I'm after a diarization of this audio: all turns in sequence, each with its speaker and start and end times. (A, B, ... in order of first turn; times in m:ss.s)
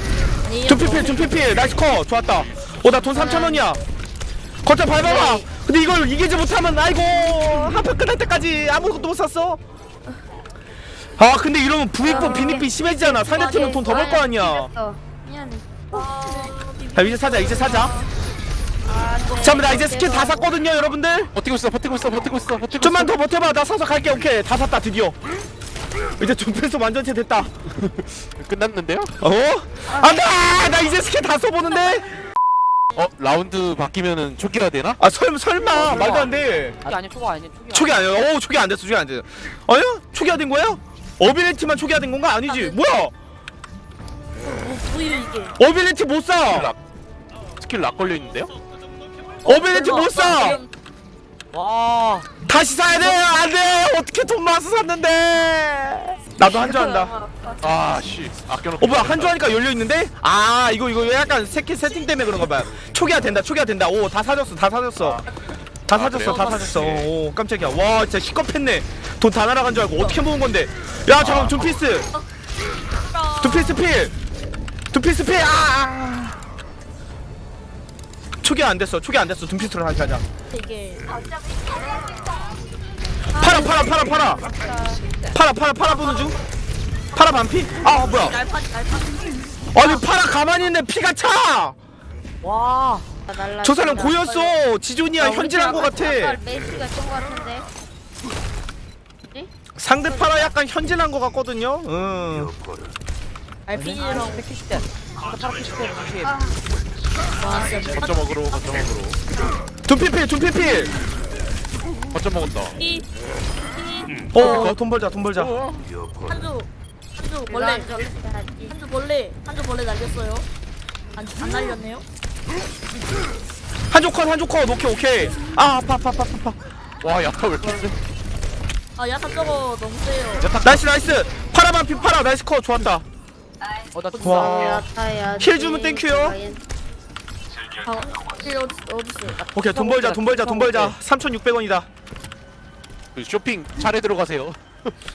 0:00.4-0:01.4 A
0:00.6-0:03.8 B
0:03.1-0:03.6 C
0:04.6-0:09.6 B
0:05.0-0:05.5 C
0:11.2-0:14.7 B
0:12.0-0:12.7 C
0:12.0-0:14.2 A
0:13.5-0:16.1 C
0:15.9-0:18.1 A
0:16.9-0:18.0 B
0:18.8-0:20.5 C
0:19.2-0:19.8 A
0:19.4-0:21.3 B
0:21.3-0:23.1 D
0:22.8-0:25.2 B
0:26.2-0:27.5 B
0:27.8-0:29.2 D
0:29.2-0:32.1 B
0:29.9-0:30.2 C
0:33.0-0:35.0 D
0:35.0-0:36.8 B
0:35.7-0:36.3 E
0:36.8-0:38.1 E
0:37.7-0:43.1 B
0:42.5-0:42.8 A
0:44.4-0:45.6 A
0:45.6-0:46.7 B
0:46.5-0:46.8 D
0:47.6-0:48.5 D
0:49.4-0:50.6 B
0:49.4-0:50.7 A
0:51.5-0:52.3 E
0:52.5-0:57.2 B
0:56.4-0:57.6 A
0:57.6-0:59.6 D
0:58.8-1:05.2 B
1:05.9-1:12.1 B
1:05.9-1:07.1 D
1:06.2-1:06.8 A
1:09.9-1:10.2 A
1:11.1-1:11.9 D
1:13.1-1:13.8 A
1:13.4-1:14.1 B
1:14.9-1:16.4 B
1:18.4-1:20.2 B
1:20.5-1:21.1 A
1:23.4-1:24.0 A
1:23.4-1:24.5 B
1:23.4-1:25.0 C
1:25.3-1:26.4 B
1:27.1-1:28.4 B
1:27.8-1:29.2 A
1:29.7-1:31.8 B
1:32.4-1:33.0 E
1:33.3-1:34.6 C
1:33.6-1:36.4 B
1:35.2-1:36.0 E
1:35.5-1:37.7 C
1:39.3-1:40.6 C
1:39.8-1:42.5 B
1:43.7-1:44.4 A
1:43.7-1:46.4 E
1:47.4-1:48.9 A
1:47.4-1:47.8 C
1:47.8-1:49.2 D
1:49.8-1:50.9 B
1:52.1-1:52.8 D
1:52.8-1:53.1 A
1:53.7-1:54.8 A
1:54.3-1:55.6 B
1:54.4-1:54.8 D
1:55.3-1:55.9 D
1:56.2-2:00.5 A
1:57.5-1:58.8 C
2:01.1-2:02.0 A
2:03.9-2:06.6 B
2:07.0-2:08.0 D
2:07.6-2:07.9 C
2:09.0-2:10.5 A
2:10.4-2:13.0 B
2:13.9-2:14.7 E
2:14.2-2:14.8 B
2:14.2-2:16.6 C
2:15.4-2:16.4 B
2:17.8-2:19.4 A
2:19.4-2:21.0 E
2:19.5-2:21.9 B
2:23.2-2:24.8 D